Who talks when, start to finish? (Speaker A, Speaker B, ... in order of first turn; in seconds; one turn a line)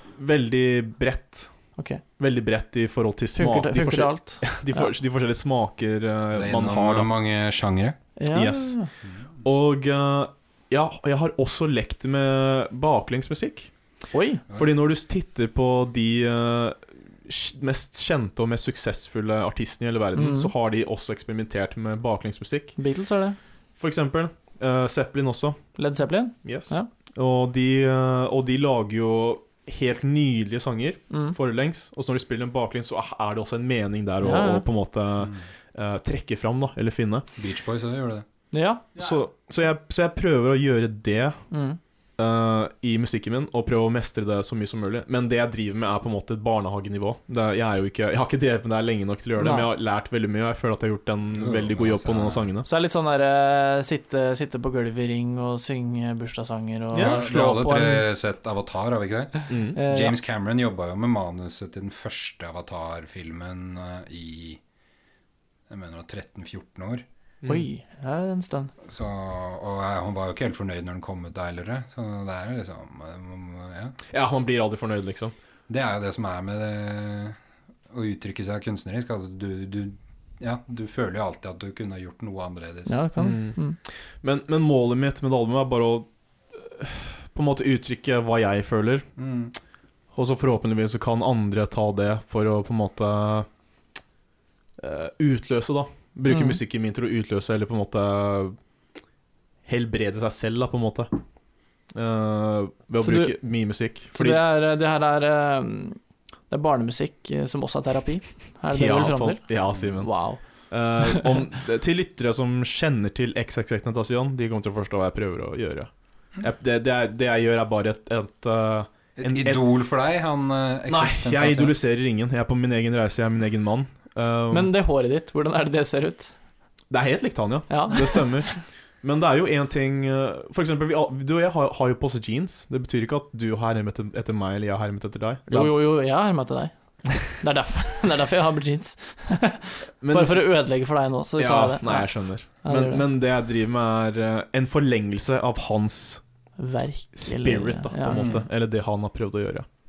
Speaker A: 0.1-1.5
Speaker B: 1.8-2.0
Speaker A: 2.2-7.1
Speaker B: 3.4-4.9
Speaker C: 6.3-8.0
Speaker B: 8.2-8.9
Speaker A: 8.3-8.8
Speaker A: 9.4-13.7
Speaker B: 14.1-14.4
Speaker A: 14.6-22.7
Speaker B: 20.1-20.5
Speaker B: 22.8-23.4
Speaker A: 23.8-25.6
Speaker B: 25.8-26.9
Speaker A: 26.4-37.2
Speaker B: 31.1-31.4
Speaker B: 34.2-34.6
Speaker C: 37.4-38.2
Speaker B: 38.5-39.0
Speaker A: 39.0-41.4
Speaker B: 41.5-41.8
Speaker A: 42.2-52.7
Speaker B: 49.4-49.7
Speaker C: 51.4-52.5
Speaker B: 52.6-58.0
Speaker A: 56.9-57.2
Speaker C: 56.9-64.6
Speaker A: 59.5-59.8
Speaker B: 59.7-60.1
Speaker C: 65.7-67.0
Speaker B: 67.5-68.7
Speaker C: 68.9-73.9
Speaker A: 74.1-75.3
Speaker C: 75.7-77.4
Speaker C: 77.9-83.0
Speaker B: 82.9-83.8
Speaker A: 83.2-83.6
Speaker A: 84.2-89.1
Speaker C: 89.2-89.5
Speaker A: 90.1-93.5
Speaker A: 94.8-98.5
Speaker B: 96.3-96.6
Speaker A: 99.7-101.1
Speaker A: 101.9-104.4
Speaker B: 103.0-103.3
Speaker B: 104.1-106.0
Speaker B: 106.5-109.4
Speaker A: 108.7-110.2
Speaker B: 110.0-110.4
Speaker A: 110.7-119.6
Speaker C: 119.2-121.7
Speaker A: 120.9-124.7
Speaker B: 124.5-126.3
Speaker A: 126.9-128.5
Speaker B: 127.7-128.5
Speaker A: 129.0-135.7
Speaker B: 135.5-143.0
Speaker A: 140.0-140.5
Speaker A: 141.4-146.2
Speaker B: 146.6-148.3
Speaker A: 147.2-149.7
Speaker C: 148.1-148.4